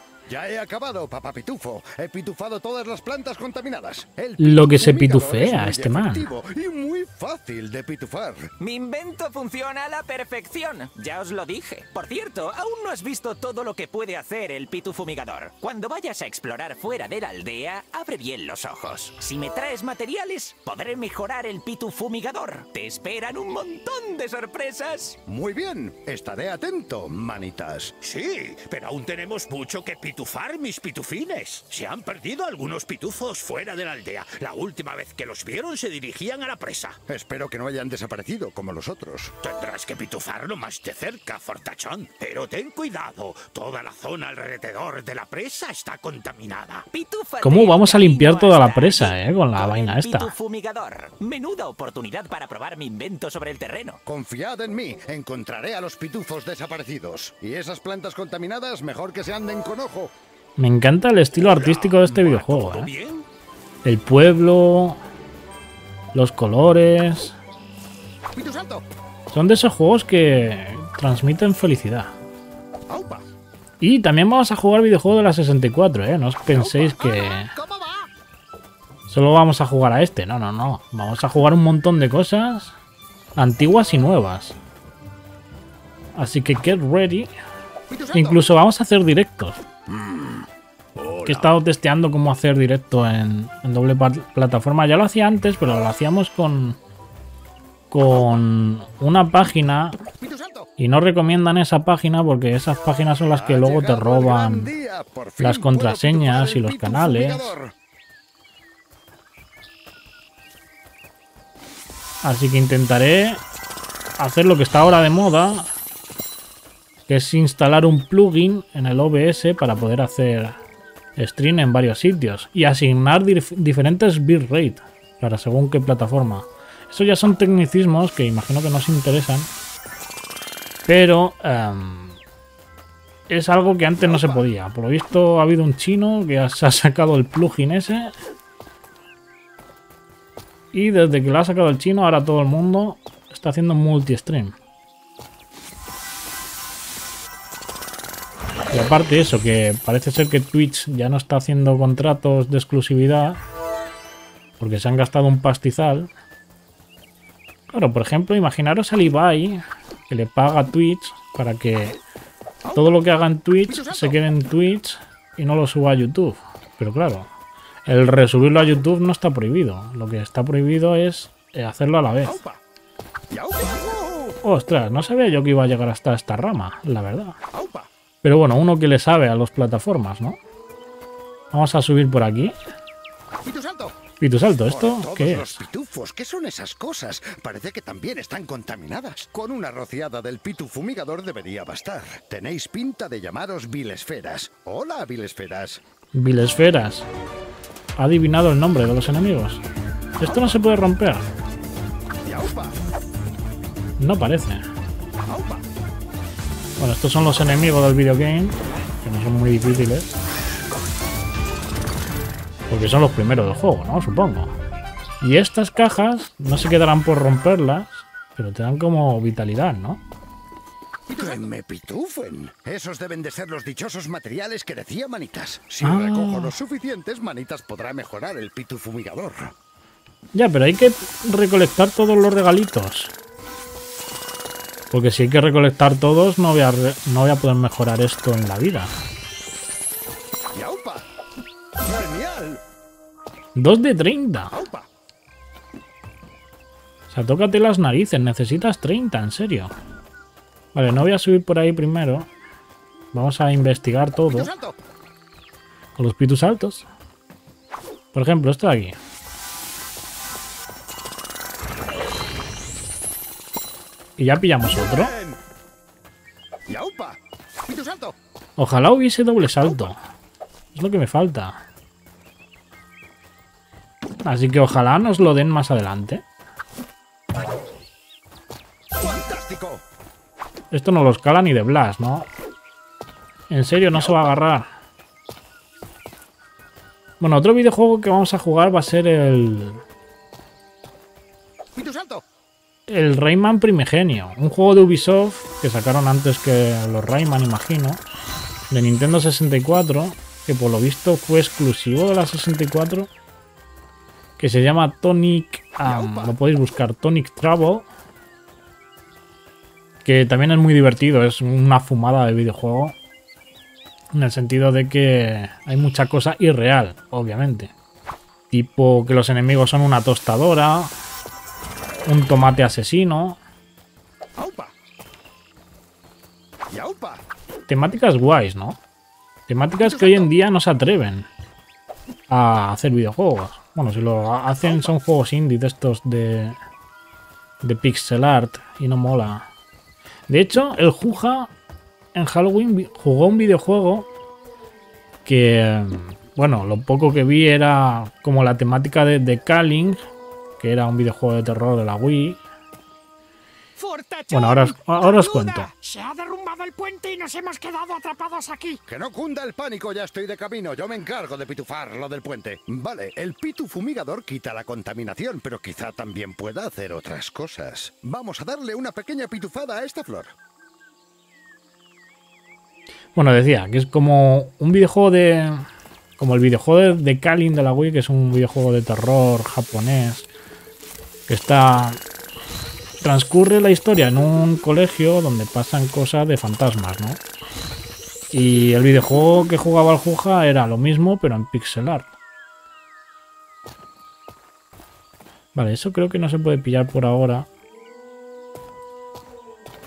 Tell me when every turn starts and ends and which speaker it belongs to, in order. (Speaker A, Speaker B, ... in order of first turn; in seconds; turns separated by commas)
Speaker A: 0.3-8.5, Speaker B: 4.4-6.3, Speaker C: 8.6-25.2, Speaker A: 25.3-27.9, Speaker D: 28.0-37.0, Speaker A: 37.1-39.3, Speaker D: 39.4-46.9, Speaker C: 46.9-54.0, Speaker B: 47.4-50.3, Speaker A: 54.1-60.1, Speaker B: 60.6-62.9, Speaker D: 61.4-63.2, Speaker B: 63.9-65.0, Speaker B: 66.1-67.4, Speaker A: 68.3-68.8, Speaker B: 69.3-72.1, Speaker A: 72.9-73.2, Speaker B: 73.8-77.5, Speaker A: 77.5-78.0, Speaker B: 79.1-82.8, Speaker B: 83.4-84.6, Speaker B: 86.2-87.3, Speaker A: 87.9-88.4, Speaker B: 88.1-89.6, Speaker A: 89.9-91.5, Speaker B: 91.2-96.8, Speaker B: 97.9-100.0, Speaker A: 100.2-100.7, Speaker B: 100.8-104.7, Speaker A: 103.3-107.7, Speaker B: 105.4-107.5, Speaker B: 112.2-113.4, Speaker B: 114.2-115.7, Speaker B: 117.1-120.6, Speaker B: 121.2-129.5, Speaker B: 130.9-132.2, Speaker B: 133.3-138.1, Speaker A: 134.0-134.5, Speaker B: 140.7-144.6, Speaker B: 148.7-153.4, Speaker B: 154.6-156.1, Speaker B: 157.7-162.0, Speaker B: 162.7-167.3, Speaker B: 167.9-172.4, Speaker A: 173.3-174.3, Speaker B: 174.4-177.4, Speaker A: 177.6-177.9, Speaker B: 178.2-180.4, Speaker B: 181.5-182.6, Speaker A: 183.5-183.9, Speaker B: 184.2-185.6, Speaker A: 184.7-195.8, Speaker B: 196.2-197.1, Speaker B: 198.0-199.6, Speaker B: 200.2-201.2, Speaker A: 202.2-202.8, Speaker B: 204.0-204.7, Speaker A: 205.3-205.6, Speaker B: 206.8-210.2, Speaker B: 212.7-214.5, Speaker B: 215.2-220.0, Speaker A: 221.1-229.5, Speaker B: 225.8-226.5, Speaker B: 230.3-233.1, Speaker B: 234.9-238.9, Speaker A: 240.5-241.1, Speaker A: 241.8-242.6, Speaker B: 243.6-244.6, Speaker A: 244.5-244.9, Speaker B: 247.1-249.7, Speaker B: 250.7-252.3, Speaker B: 253.1-254.5, Speaker A: 254.3-254.8, Speaker B: 256.0-256.9, Speaker B: 258.1-259.0, Speaker B: 264.2-265.1, Speaker A: 264.7-265.4, Speaker A: 266.7-268.1, Speaker B: 268.6-270.0, Speaker B: 270.7-271.6, Speaker B: 274.2-276.2, Speaker A: 279.0-279.8, Speaker B: 280.7-282.3, Speaker B: 283.5-284.7, Speaker A: 283.9-284.4, Speaker B: 287.2-289.8, Speaker A: 291.8-292.2, Speaker B: 292.9-298.0, Speaker B: 298.7-303.1, Speaker B: 304.4-307.9, Speaker A: 305.8-306.4, Speaker B: 310.1-313.0, Speaker B: 314.1-317.7, Speaker B: 318.5-320.9, Speaker B: 322.1-323.4, Speaker A: 324.4-324.7, Speaker A: 326.7-327.2, Speaker B: 327.7-328.8, Speaker B: 329.5-331.3, Speaker A: 329.8-330.3, Speaker B: 332.3-336.6, Speaker A: 334.6-335.0, Speaker B: 337.6-339.5, Speaker B: 340.3-341.5, Speaker B: 342.1-344.1, Speaker B: 345.3-350.0, Speaker B: 350.6-352.4, Speaker E: 353.8-358.8, Speaker B: 354.3-355.7, Speaker A: 358.9-370.3, Speaker B: 373.2-375.7, Speaker B: 376.2-380.3, Speaker B: 381.3-382.0, Speaker B: 383.0-387.2, Speaker B: 388.3-392.1, Speaker B: 395.6-397.5